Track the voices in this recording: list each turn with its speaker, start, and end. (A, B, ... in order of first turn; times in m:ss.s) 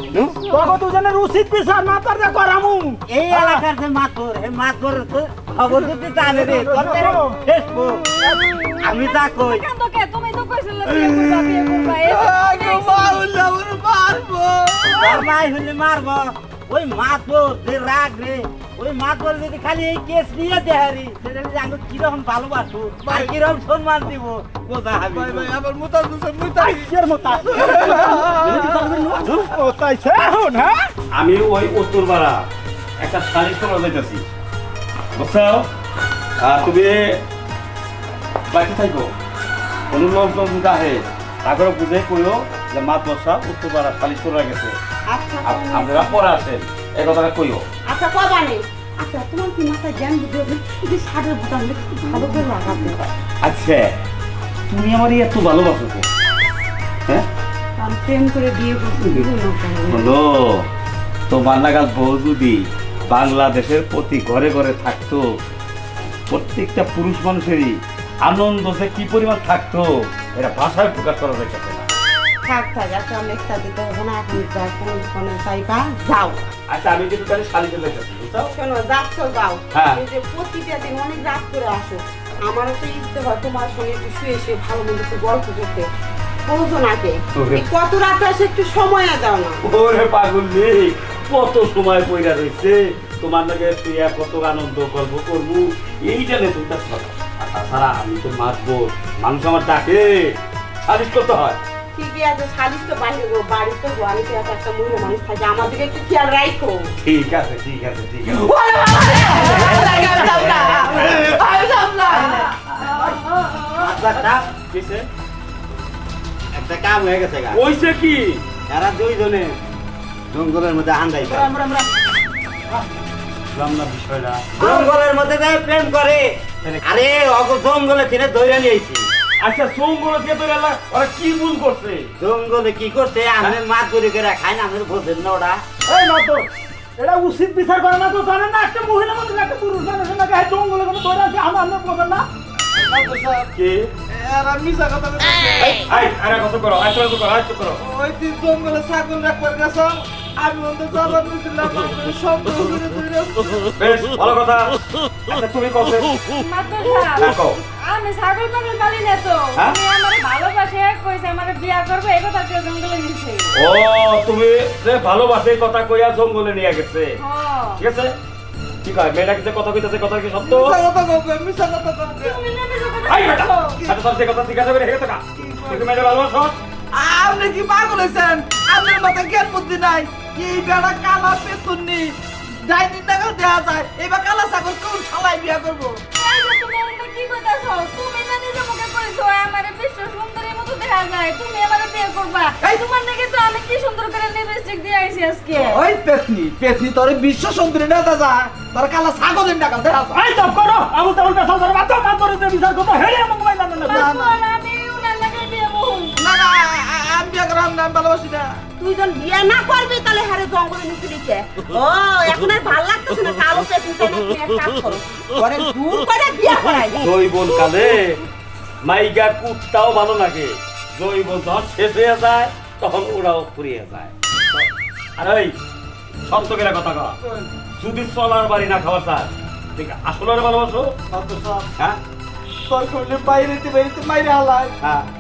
0:00.1-0:00.4 A
0:00.5-0:03.6 B
0:03.1-0:08.0 A
0:05.8-0:07.4 B
0:08.2-0:08.6 B
0:08.8-0:09.7 A
0:09.0-0:13.3 C
0:10.9-0:15.2 D
0:14.9-0:25.6 A
0:23.0-0:23.5 D
0:25.1-0:29.4 D
0:26.6-0:30.9 B
0:31.1-0:32.5 E
0:33.0-0:34.3 E
0:35.2-0:35.7 E
0:36.4-0:37.2 E
0:38.5-0:39.1 E
0:39.9-0:44.8 E
0:45.1-0:46.4 F
0:45.4-0:47.6 E
0:47.9-0:53.1 F
0:53.4-0:53.9 E
0:54.7-0:56.1 E
0:57.8-1:00.1 F
0:59.9-1:00.6 E
1:01.3-1:05.2 E
1:06.3-1:11.9 E
1:12.4-1:16.5 F
1:16.7-1:18.5 E
1:18.5-1:25.9 F
1:19.7-1:20.0 E
1:26.5-1:29.6 F
1:27.4-1:27.7 E
1:29.6-1:41.6 E
1:42.0-1:46.9 F
1:47.0-1:48.5 E
1:48.3-1:53.9 D
1:49.0-1:52.4 F
1:49.6-1:50.8 A
1:52.1-1:52.5 A
1:53.8-1:54.5 A
1:54.5-1:55.1 E
1:56.5-1:57.6 A
1:57.5-1:58.4 E
1:58.7-1:59.6 A
2:00.3-2:01.5 A
2:01.4-2:01.9 B
2:03.5-2:04.9 E
2:04.6-2:09.1 A
2:09.4-2:12.1 E
2:12.2-2:15.6 A
2:15.9-2:22.3 B
2:22.7-2:23.5 D
2:23.6-2:23.9 E
2:24.1-2:25.9 D
2:25.8-2:27.8 E
2:27.8-2:34.0 D
2:33.8-2:36.2 E
2:36.3-2:43.5 C
2:37.2-2:37.6 E
2:43.5-2:47.2 E
2:47.2-2:47.8 C
2:47.8-2:48.2 E
2:48.8-2:50.8 E
2:50.4-2:52.4 D
2:52.2-2:53.5 C
2:53.1-2:56.6 E
2:53.3-2:54.0 D
2:55.4-2:55.9 D
2:56.9-3:06.0 D
3:06.2-3:15.8 C
3:15.6-3:20.2 D
3:20.1-3:24.1 B
3:23.8-3:26.2 C
3:23.9-3:24.3 D
3:26.2-3:28.6 D
3:28.8-3:37.1 F
3:37.0-3:38.2 E
3:38.8-3:44.1 E
3:45.2-3:45.5 E
3:46.3-3:47.2 E
3:47.2-3:47.5 D
3:47.8-3:51.0 E
3:51.1-3:51.7 D
3:52.7-3:54.8 D
3:54.8-3:55.1 E